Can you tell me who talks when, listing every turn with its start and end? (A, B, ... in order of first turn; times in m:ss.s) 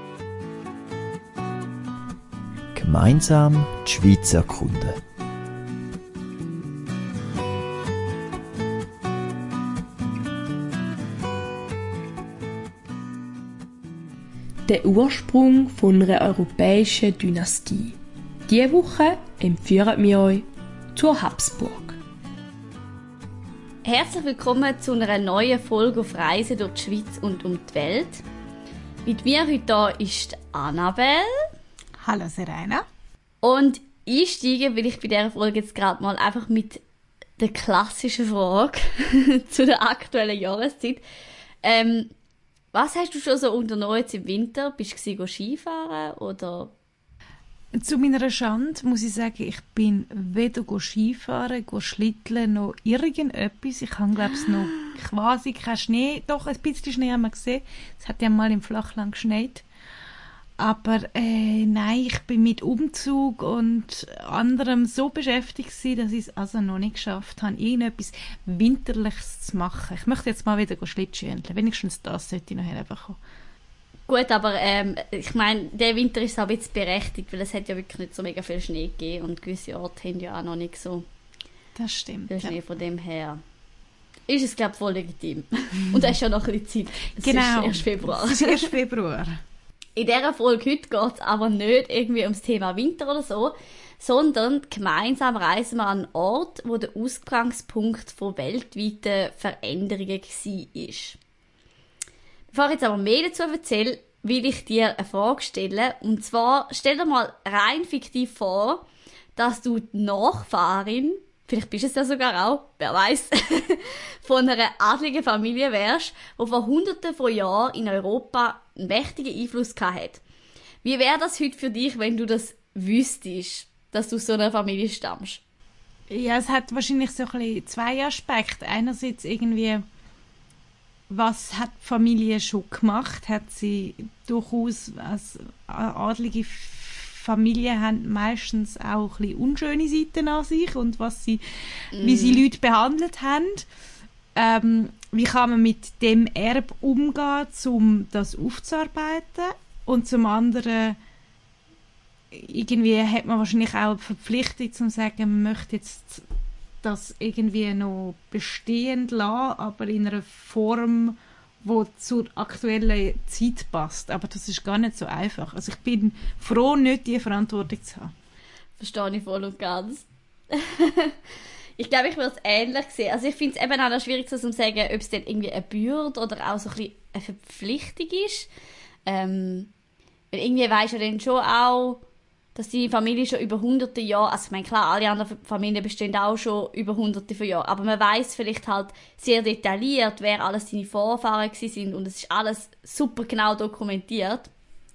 0:02.8-0:05.0 A
0:14.7-0:22.0 B
0:23.8-0:28.2 C
0:29.1-0:31.4 C
0:32.0-0:32.8 D
0:33.4-0:36.8 C
0:37.4-0:41.0 C
0:41.6-0:42.1 C
0:42.7-0:46.7 C
0:47.8-0:59.6 D
1:00.6-1:13.2 D
1:14.1-1:21.1 C
1:21.8-1:22.6 D
1:22.3-1:23.4 C
1:24.3-1:28.7 C
1:27.2-1:29.4 D
1:30.0-1:41.2 C
1:42.5-2:00.2 C
2:00.8-2:05.4 C
2:06.1-2:09.8 D
2:11.1-2:23.7 D
2:21.9-2:22.4 C
2:24.4-2:31.0 D
2:32.3-2:36.2 D
2:36.8-2:48.1 D
2:48.8-2:51.2 C
2:51.8-2:58.5 C
2:59.1-2:59.7 C
3:00.3-3:02.0 C
3:02.6-3:14.5 C